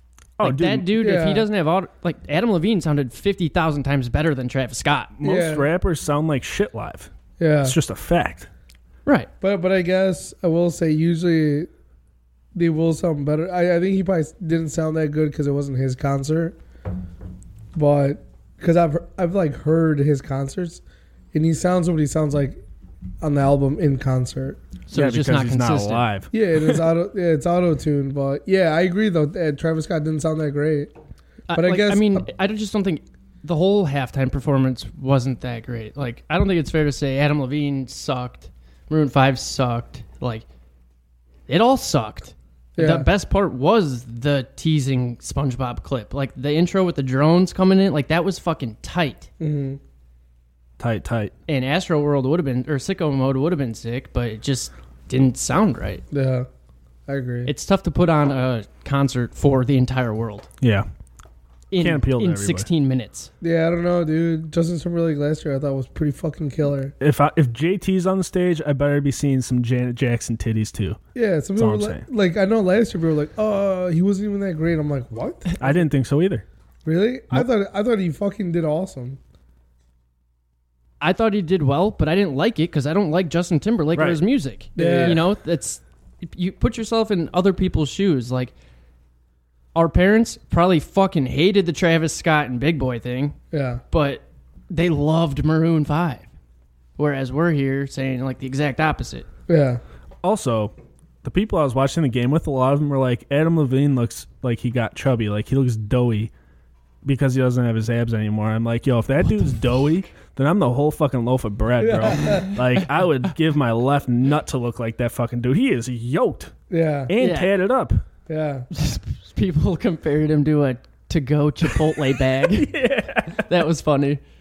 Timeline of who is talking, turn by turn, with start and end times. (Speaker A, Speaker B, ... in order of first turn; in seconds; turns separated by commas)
Speaker A: 0.4-0.9, Speaker B: 0.4-5.1, Speaker C: 1.0-1.4, Speaker A: 5.2-7.1, Speaker C: 5.2-5.7, Speaker C: 7.4-7.8, Speaker A: 7.6-8.5, Speaker C: 9.4-11.7, Speaker C: 12.5-16.6, Speaker C: 17.7-20.8, Speaker C: 21.3-22.6, Speaker C: 23.2-24.6, Speaker B: 24.9-26.1, Speaker A: 24.9-26.8, Speaker C: 26.3-30.9, Speaker B: 31.5-40.4, Speaker C: 31.5-32.3, Speaker B: 41.5-49.3, Speaker C: 42.8-43.1, Speaker C: 49.4-49.8, Speaker A: 50.8-51.3, Speaker B: 51.5-56.0, Speaker C: 56.1-56.5, Speaker C: 57.1-57.5, Speaker B: 57.5-60.5, Speaker A: 60.6-60.9, Speaker B: 61.7-63.3, Speaker A: 61.8-62.7, Speaker C: 63.4-66.9, Speaker A: 67.0-71.0, Speaker C: 71.1-75.8, Speaker A: 71.5-72.0, Speaker A: 75.6-76.4, Speaker C: 76.8-79.2, Speaker B: 81.0-88.5, Speaker A: 83.9-84.2, Speaker C: 84.8-85.2, Speaker A: 84.8-85.2, Speaker B: 89.7-93.4, Speaker C: 93.5-93.8, Speaker B: 93.9-96.2, Speaker B: 97.0-99.3, Speaker C: 99.5-99.8, Speaker A: 100.2-100.7, Speaker A: 101.2-106.3, Speaker A: 107.0-116.5, Speaker C: 111.8-112.5, Speaker C: 116.7-117.1, Speaker A: 117.1-118.0, Speaker B: 117.2-117.5, Speaker C: 118.3-118.7, Speaker B: 118.7-122.8, Speaker A: 122.4-123.5, Speaker B: 123.3-124.2